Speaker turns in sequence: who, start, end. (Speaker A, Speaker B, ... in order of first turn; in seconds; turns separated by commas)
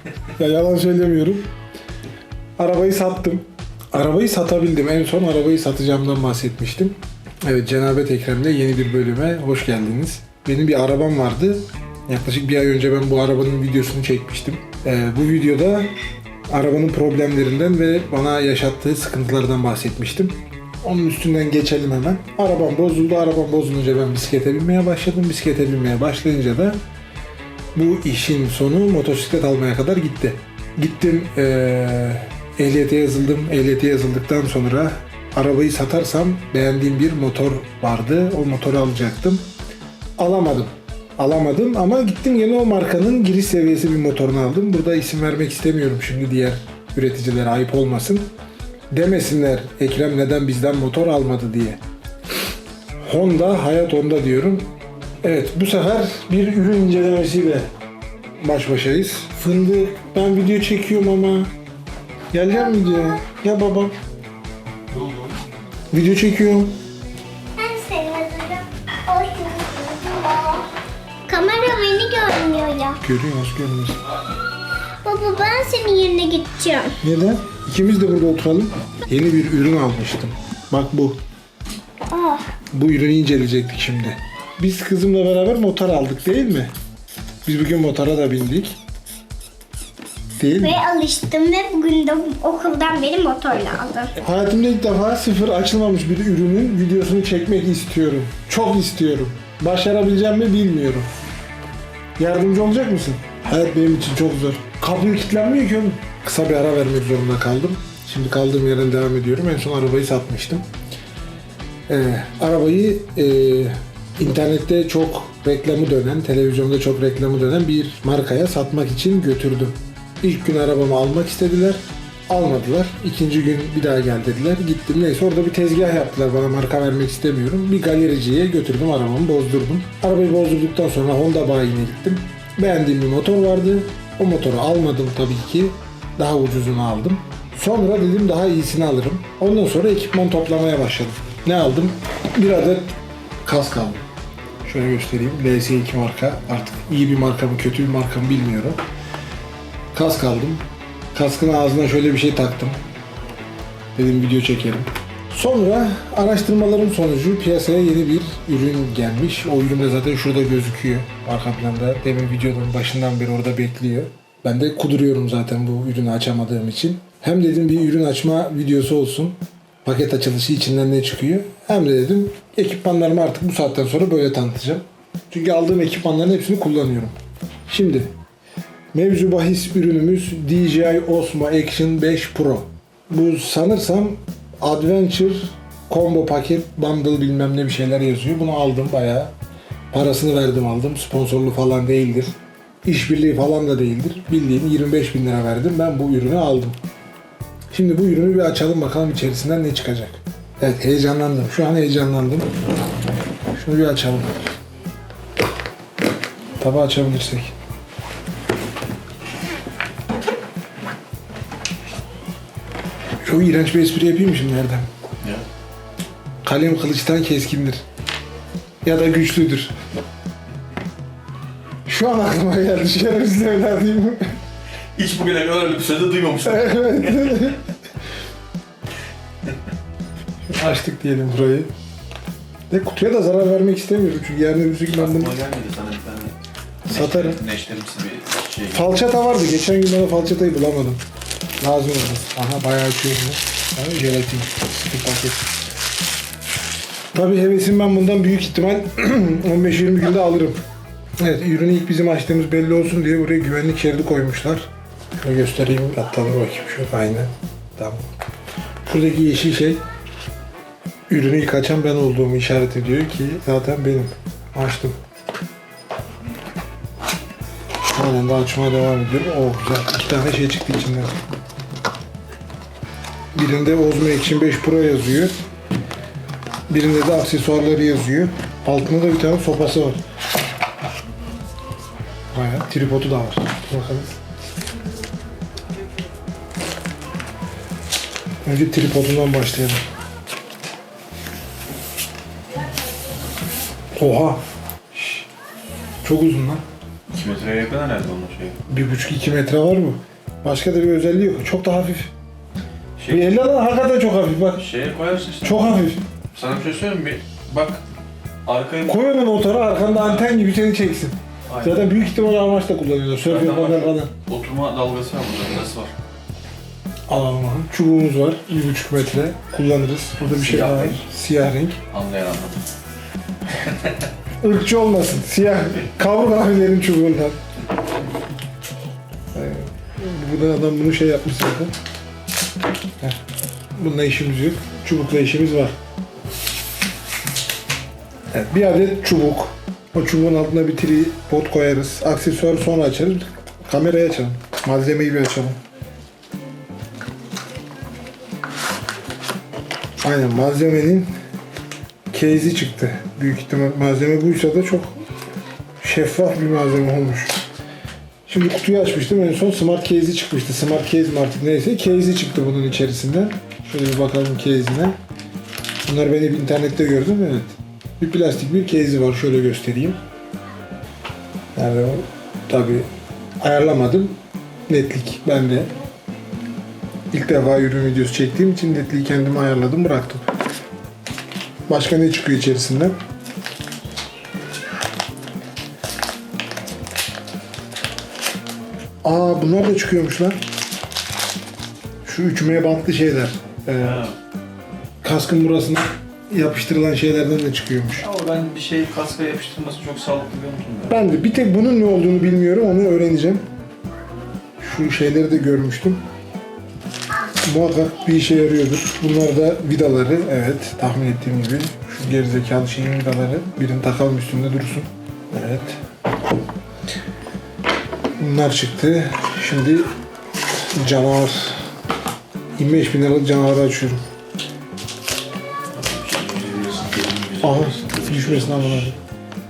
Speaker A: 0.3-1.5, Speaker A: 2.6-15.9, Speaker A: 16.5-26.8, Speaker A: 27.7-39.5, Speaker A: 40.2-48.3, Speaker A: 48.9-51.8, Speaker A: 53.0-54.7, Speaker A: 55.2-57.7, Speaker A: 58.4-61.5, Speaker A: 62.3-63.9, Speaker A: 65.9-66.7, Speaker B: 67.5-70.7, Speaker B: 71.3-73.0, Speaker A: 73.0-74.0, Speaker B: 75.0-77.0, Speaker A: 77.0-81.2, Speaker B: 82.1-82.5, Speaker A: 82.7-86.7, Speaker A: 87.4-88.8, Speaker A: 90.4-90.8, Speaker B: 90.6-94.1, Speaker A: 94.2-101.1, Speaker A: 102.2-110.6, Speaker A: 111.9-144.0, Speaker A: 144.6-148.8, Speaker A: 149.9-152.8, Speaker A: 153.9-177.1, Speaker A: 177.7-178.1, Speaker A: 178.9-189.3, Speaker A: 189.9-192.3, Speaker A: 192.8-196.8, Speaker A: 197.7-202.5, Speaker A: 203.5-204.4, Speaker A: 206.6-207.5, Speaker A: 213.2-214.9, Speaker A: 216.4-217.8, Speaker A: 218.8-219.7, Speaker A: 221.8-224.3, Speaker C: 224.9-227.5, Speaker A: 226.4-227.6, Speaker A: 230.5-231.7, Speaker A: 232.7-235.3, Speaker C: 234.9-236.3, Speaker C: 236.9-239.0, Speaker A: 236.9-237.4, Speaker A: 238.7-241.0, Speaker A: 241.6-245.4, Speaker A: 247.1-250.6, Speaker A: 251.2-254.7, Speaker A: 255.2-258.1, Speaker A: 258.8-259.8, Speaker A: 261.1-265.0, Speaker A: 267.8-271.1, Speaker A: 273.3-275.3, Speaker A: 276.7-280.0, Speaker A: 282.3-284.1, Speaker A: 288.4-289.8, Speaker A: 293.9-294.4, Speaker A: 294.9-295.2, Speaker A: 296.0-296.6, Speaker C: 297.1-298.6, Speaker A: 298.7-302.1, Speaker C: 303.0-303.4, Speaker A: 303.1-304.6, Speaker C: 304.6-307.8, Speaker A: 305.4-306.0, Speaker C: 308.4-309.1, Speaker A: 308.9-314.1, Speaker C: 309.8-310.3, Speaker C: 311.5-311.9, Speaker C: 313.2-315.9, Speaker A: 317.1-321.8, Speaker C: 320.2-321.1, Speaker C: 321.9-322.6, Speaker C: 323.6-324.1, Speaker A: 324.4-327.4, Speaker A: 329.3-331.7, Speaker A: 333.8-335.8, Speaker A: 338.3-345.6, Speaker A: 350.0-351.1, Speaker A: 352.1-354.9, Speaker A: 355.8-357.4, Speaker A: 358.2-364.9, Speaker A: 365.9-370.0, Speaker A: 371.6-372.9, Speaker A: 373.4-374.1, Speaker A: 374.7-375.7, Speaker A: 377.1-380.2, Speaker A: 381.7-382.9, Speaker A: 389.0-390.4, Speaker A: 392.0-394.1, Speaker C: 393.8-394.1, Speaker A: 395.0-398.1, Speaker C: 398.0-400.9, Speaker A: 400.9-403.4, Speaker A: 404.6-406.0, Speaker A: 407.4-415.8, Speaker A: 418.2-419.9, Speaker A: 420.6-421.6, Speaker A: 422.6-424.0, Speaker C: 425.7-428.9, Speaker A: 427.4-429.0